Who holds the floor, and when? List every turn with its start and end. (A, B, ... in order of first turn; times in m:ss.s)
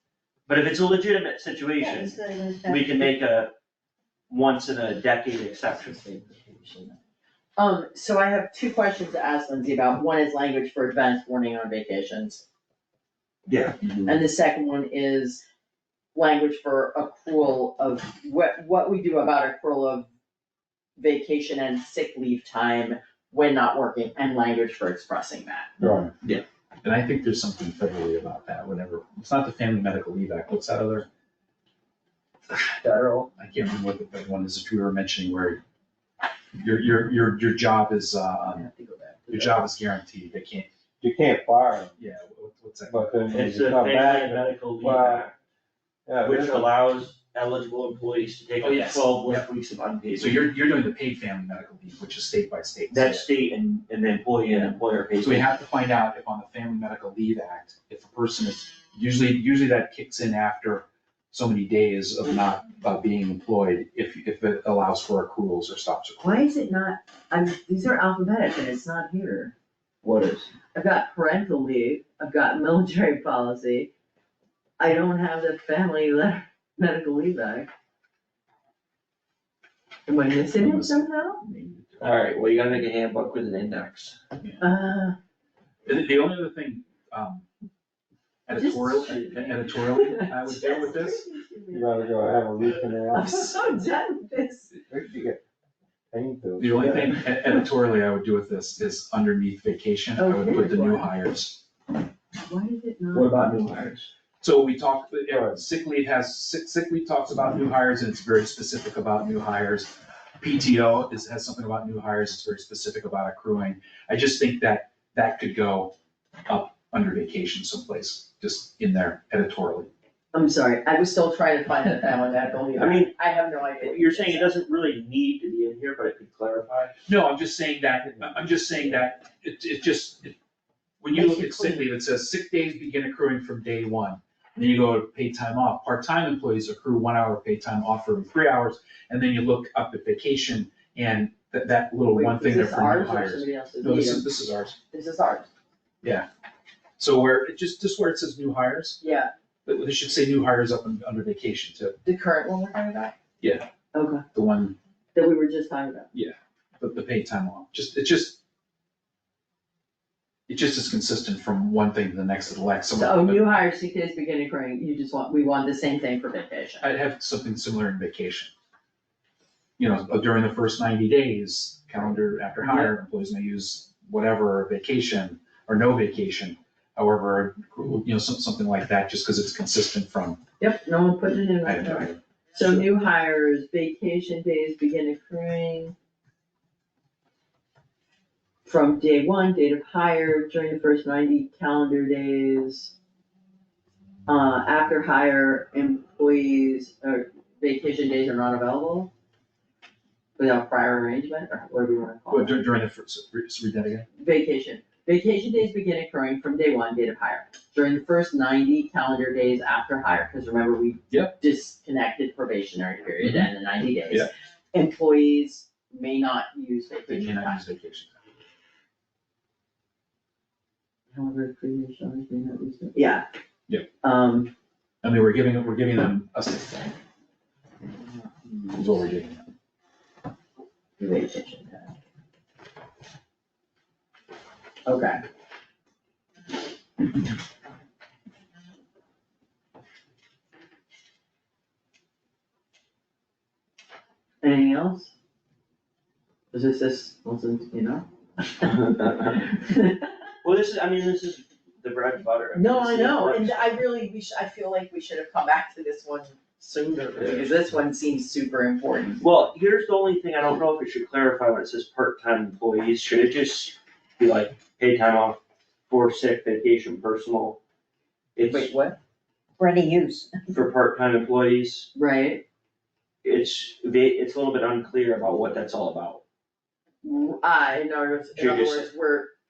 0:00.5-0:03.5 A
0:01.8-0:03.0 B
0:04.3-0:06.0 A
0:06.0-0:07.0 B
0:07.6-0:12.4 B
0:13.5-0:13.8 A
0:13.8-0:14.1 C
0:14.0-0:15.4 B
0:16.1-0:20.1 B
0:21.0-0:25.8 B
0:25.8-0:26.1 D
0:26.2-0:31.1 C
0:32.6-0:35.6 C
0:36.6-0:38.6 C
0:38.5-0:39.7 B
0:39.3-0:40.7 C
0:41.0-0:42.0 D
0:42.0-0:43.5 C
0:42.9-0:45.2 D
0:43.3-0:45.4 A
0:46.1-0:46.8 D
0:46.2-0:50.5 A
0:48.6-0:49.5 C
0:50.2-0:53.3 C
0:52.9-0:55.5 A
0:54.5-1:06.4 C
1:06.2-1:09.5 B
1:10.0-1:10.5 A
1:10.7-1:13.9 B
1:14.8-1:17.7 B
1:20.1-1:21.4 B
1:20.6-1:22.5 C
1:22.0-1:24.2 A
1:24.6-1:25.2 B
1:25.9-1:27.5 C
1:28.5-1:31.2 C
1:28.5-1:34.7 B
1:31.7-1:33.5 D
1:34.9-1:35.4 D
1:36.1-1:37.2 D
1:36.6-1:41.6 C
1:40.2-1:41.1 B
1:42.4-1:43.8 B
1:43.1-1:44.1 A
1:44.4-1:55.9 C
1:45.3-1:45.6 D
1:56.5-1:59.9 C
2:00.3-2:04.6 B
2:02.7-2:03.1 A
2:03.8-2:07.0 A
2:07.1-2:10.4 C
2:08.2-2:08.8 D
2:11.0-2:24.8 C
2:11.1-2:11.8 B
2:22.1-2:24.3 B
2:24.9-2:25.5 B
2:26.0-2:26.3 C
2:27.0-2:29.0 C
2:29.0-2:29.3 B
2:29.7-2:32.0 C
2:32.0-2:33.2 B
2:33.4-2:33.7 C
2:33.9-2:34.2 B
2:34.3-2:34.8 C
2:35.2-2:36.1 B
2:36.1-2:38.4 C
2:40.5-2:43.4 C
2:42.9-2:46.8 B
2:46.8-2:48.5 C
2:49.8-3:00.4 C
2:52.6-2:52.9 B
3:00.6-3:06.0 B
3:01.6-3:02.9 C
3:08.6-3:12.9 B
3:14.3-3:19.1 B
3:20.4-3:22.6 B
3:22.3-3:24.1 C
3:24.2-3:37.6 B
3:31.1-3:31.4 C
3:33.2-3:33.5 C
3:37.1-3:38.2 C
3:41.1-3:43.3 B
3:44.0-3:44.5 B
3:45.0-3:46.9 C
3:48.0-3:48.8 B
3:48.6-3:49.4 C
3:51.0-3:51.9 B
3:54.9-3:55.2 B
4:04.4-4:05.1 B
4:06.5-4:08.1 B
4:08.6-4:10.2 B
4:08.7-4:09.4 A
4:10.4-4:13.7 A
4:12.6-4:19.2 B
4:17.2-4:17.5 A
4:19.2-4:27.6 A
4:28.4-4:28.7 A
4:28.5-4:29.0 B
4:29.6-4:30.3 B
4:30.5-4:31.9 A
4:32.0-4:32.4 B
4:33.2-4:36.2 A
4:37.0-4:39.3 B
4:38.4-4:38.9 A